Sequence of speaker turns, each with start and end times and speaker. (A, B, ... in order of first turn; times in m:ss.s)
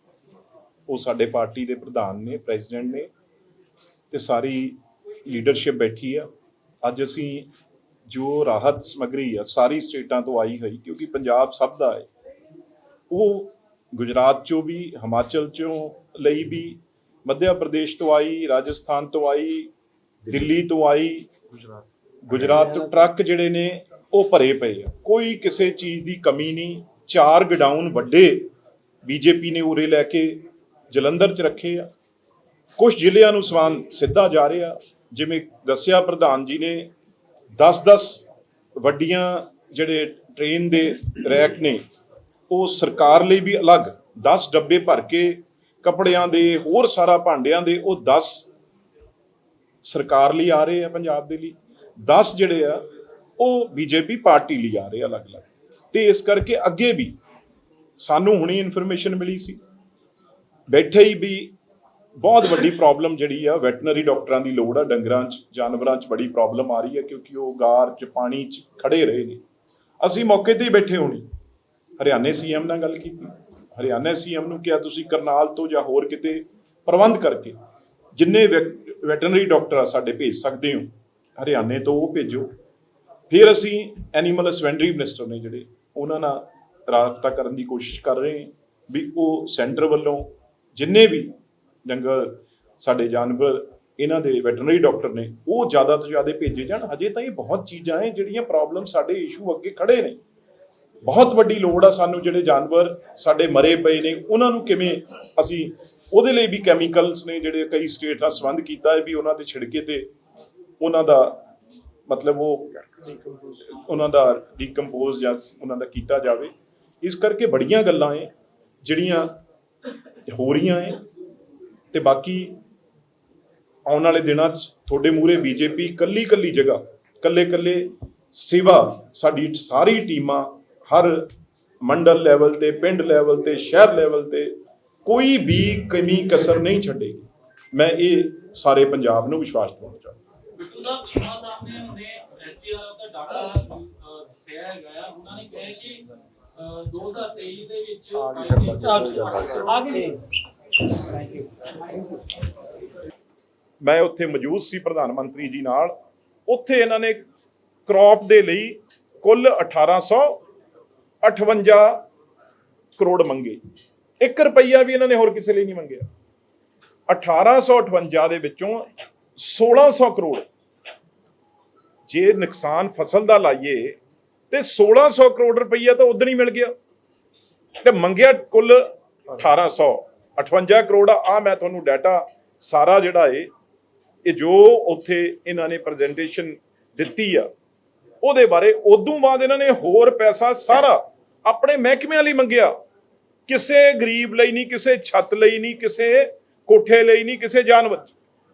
0:00.9-0:03.1 A
0:04.1-0:06.3 A
0:06.8-0:07.5 A
0:08.1-0:12.1 A
0:13.1-0:19.7 A
0:20.3-0:21.3 A
0:21.5-0:22.8 B
0:22.2-0:28.5 A
0:29.0-0:31.9 A
0:32.8-0:36.9 A
0:37.6-0:38.2 A
0:38.8-0:41.8 A
0:42.5-0:48.4 A
0:49.8-0:52.9 A
0:53.4-0:57.2 A
0:58.0-0:59.6 A
1:00.7-1:01.5 A
1:02.2-1:09.4 A
1:10.0-1:11.3 A
1:12.0-1:17.6 A
1:18.2-1:22.5 A
1:23.3-1:31.3 A
1:31.8-1:40.2 A
1:41.0-1:50.1 A
1:50.8-1:51.4 A
1:52.1-1:53.1 A
1:53.2-1:53.6 B
1:53.6-1:58.3 A
1:58.8-1:59.4 A
2:00.3-2:01.0 A
2:01.9-2:02.6 A
2:03.9-2:11.3 A
2:11.8-2:20.2 A
2:20.6-2:30.2 C
2:28.3-2:30.1 B
2:31.1-2:32.0 C
2:33.8-2:36.0 A
2:36.5-2:37.3 A
2:37.9-2:40.4 A
2:41.2-2:42.0 A
2:43.0-2:43.6 A
2:44.2-2:46.0 A
2:47.1-2:50.5 A
2:52.1-2:54.0 A
2:54.5-2:56.7 A
2:57.8-3:03.5 A
3:04.2-3:07.5 A
3:08.2-3:12.8 A
3:13.5-3:18.1 A